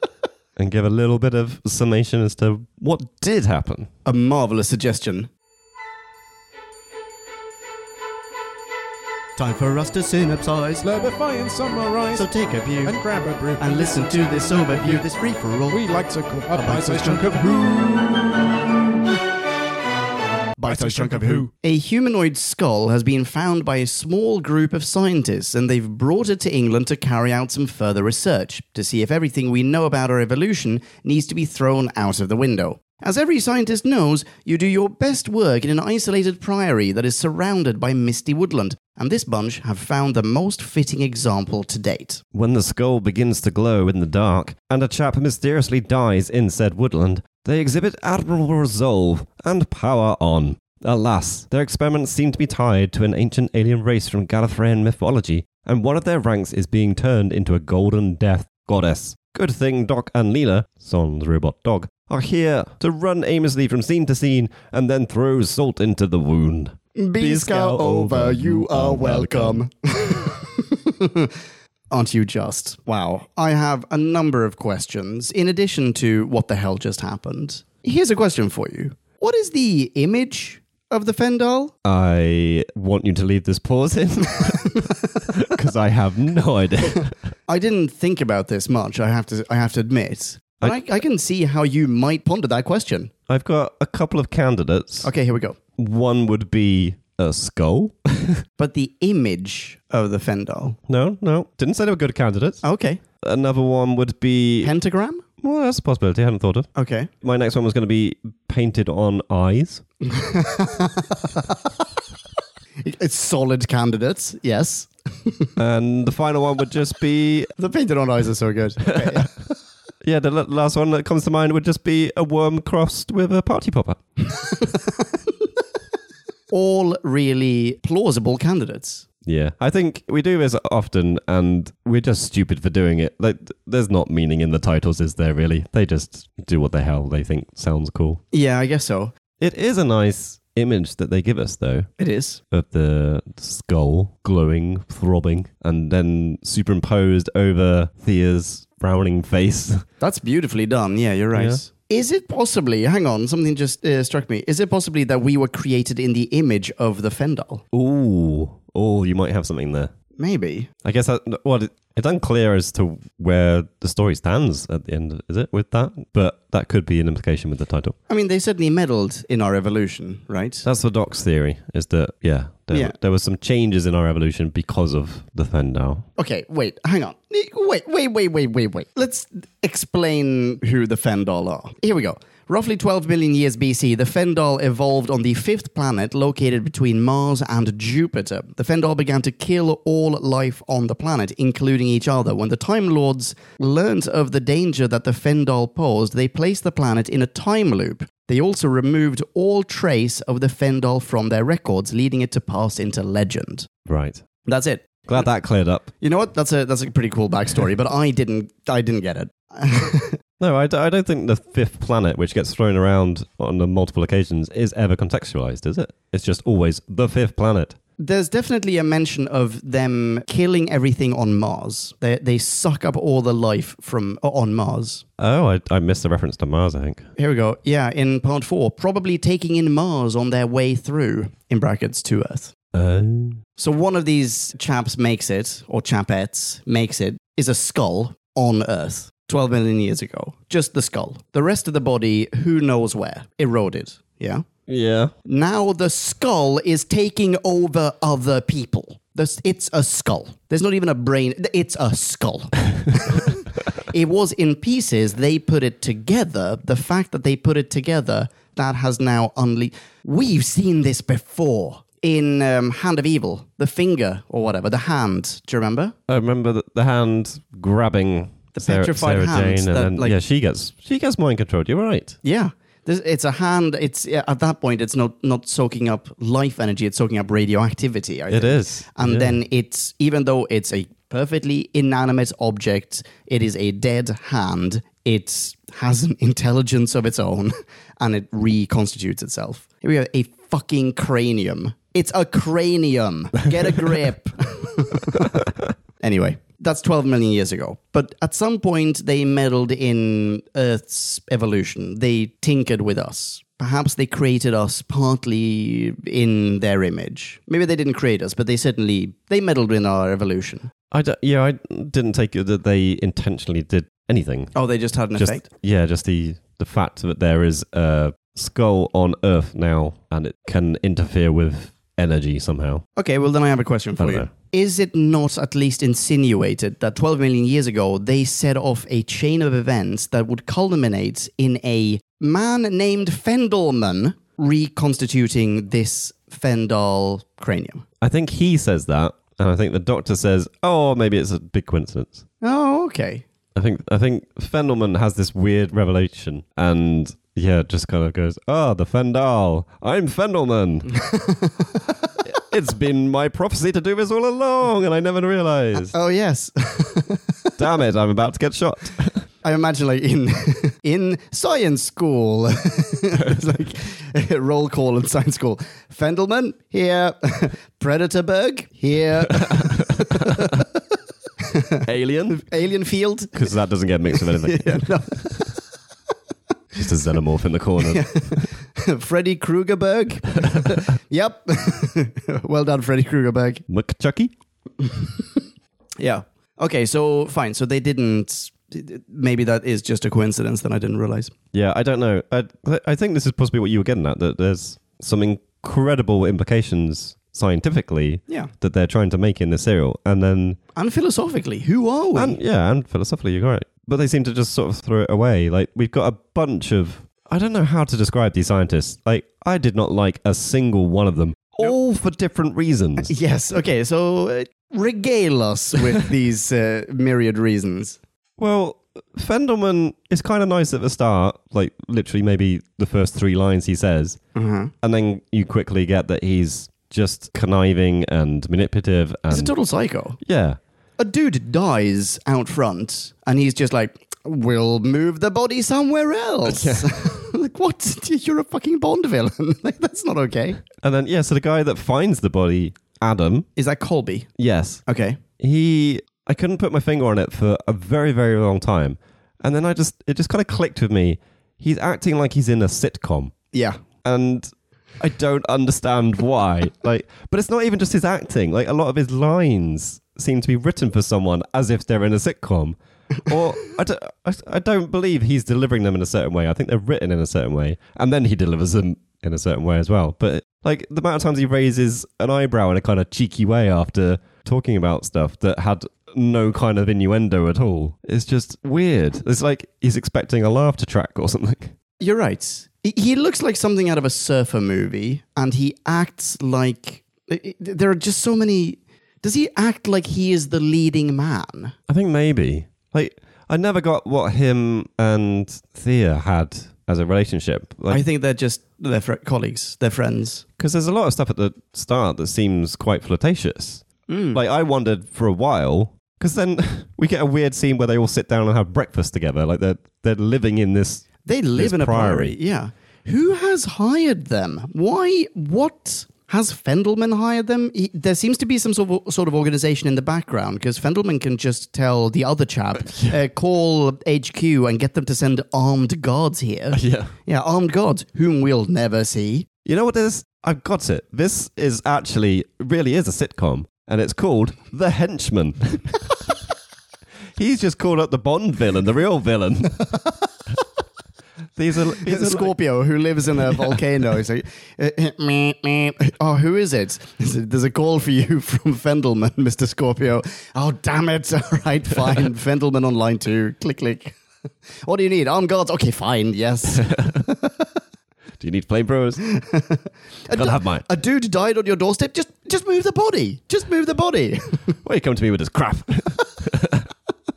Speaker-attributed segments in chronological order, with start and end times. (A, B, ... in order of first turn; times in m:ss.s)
0:00.6-0:03.9 A
0:04.0-0:05.3 B
0:09.4-0:10.9 B
0:10.8-0:12.3 C
0:12.1-0:13.0 B
0:12.8-0:15.0 C
0:13.6-0:15.8 B
0:15.7-0:18.1 C
0:16.5-0:18.1 B
0:20.6-0:42.2 B
0:20.6-0:21.5 C
0:42.3-1:09.6 A
1:07.0-1:11.3 B
1:11.9-1:21.7 B
1:21.8-1:27.1 A
1:27.5-1:33.1 B
1:33.3-1:35.1 A
1:35.0-1:35.6 B
1:35.8-1:38.4 A
1:38.6-1:40.8 B
1:40.9-1:42.6 A
1:42.6-1:43.0 B
1:43.2-1:44.7 A
1:44.6-1:45.2 B
1:45.4-1:46.7 A
1:46.8-1:47.1 B
1:47.2-1:49.8 A
1:50.0-1:51.6 B
1:52.8-1:55.5 B
1:55.6-1:57.5 A
1:57.6-1:59.3 B
2:00.0-2:04.0 A
2:04.5-2:04.8 B
2:06.5-2:09.0 B
2:09.2-2:18.2 A
2:18.3-2:19.1 B
2:19.4-2:21.9 A
2:22.0-2:22.4 B
2:22.5-2:29.8 A
2:30.0-2:37.6 B
2:31.3-2:31.6 A
2:37.7-2:39.9 A
2:40.2-2:40.7 B
2:40.8-2:47.9 A
2:48.1-2:50.6 B
2:50.6-2:56.1 A
2:56.2-3:23.7 B
3:23.8-3:24.2 A
3:24.4-3:25.2 B
3:25.1-3:25.9 A
3:26.0-3:30.2 B
3:30.4-3:37.8 A
3:38.0-3:45.0 B
3:45.2-3:47.1 A
3:47.2-3:52.5 B
3:52.7-3:53.4 A
3:53.6-4:04.4 B
4:04.7-4:05.1 A
4:05.2-4:25.9 B
4:26.1-4:32.2 A
4:28.5-4:30.2 B
4:32.2-4:55.5 B
4:38.3-4:39.4 A
4:56.0-5:10.7 B
5:10.9-5:14.5 A
5:14.5-5:15.4 B
5:15.2-5:22.8 A
5:23.0-5:37.8 B
5:24.0-5:24.3 A
5:38.0-5:42.2 A
5:42.4-5:43.2 B
5:43.5-5:51.0 A
5:50.9-5:51.7 B
5:52.2-5:55.9 A
5:55.9-5:57.5 B
5:57.6-5:59.2 A
5:59.4-6:10.6 B
6:09.4-6:10.5 A
6:11.5-6:13.4 B
6:11.8-6:12.4 A
6:13.3-6:14.9 A
6:14.4-6:15.6 B
6:16.7-6:18.4 A
6:17.8-6:23.6 B
6:23.7-6:24.3 A
6:26.0-6:31.3 B
6:31.5-6:40.6 A
6:40.8-6:42.4 B
6:42.1-6:53.1 A
6:53.0-6:58.0 B
6:58.4-7:04.2 A
7:04.3-7:04.7 B
7:04.8-7:09.5 A
7:09.3-7:10.2 B
7:10.2-7:10.6 A
7:11.0-7:20.6 B
7:16.4-7:16.9 A
7:20.8-7:23.5 A
7:23.6-7:24.3 B
7:24.4-7:24.8 A
7:24.8-7:25.2 B
7:25.4-7:33.3 A
7:33.5-7:33.8 B
7:34.0-8:01.7 A
8:02.0-8:11.7 B
8:11.9-8:18.0 A
8:17.9-8:20.4 B
8:20.6-8:32.4 A
8:24.1-8:24.4 B
8:31.2-8:49.5 B
8:46.7-8:47.1 A
8:49.6-8:56.0 A
8:57.4-8:59.9 A
9:01.6-9:02.5 A
9:02.0-9:14.2 B
9:03.5-9:03.8 A
9:14.8-9:17.6 B
9:16.8-9:17.1 A
9:18.4-9:19.2 A
9:19.3-9:24.8 B
9:20.3-9:20.8 A
9:24.8-9:26.9 A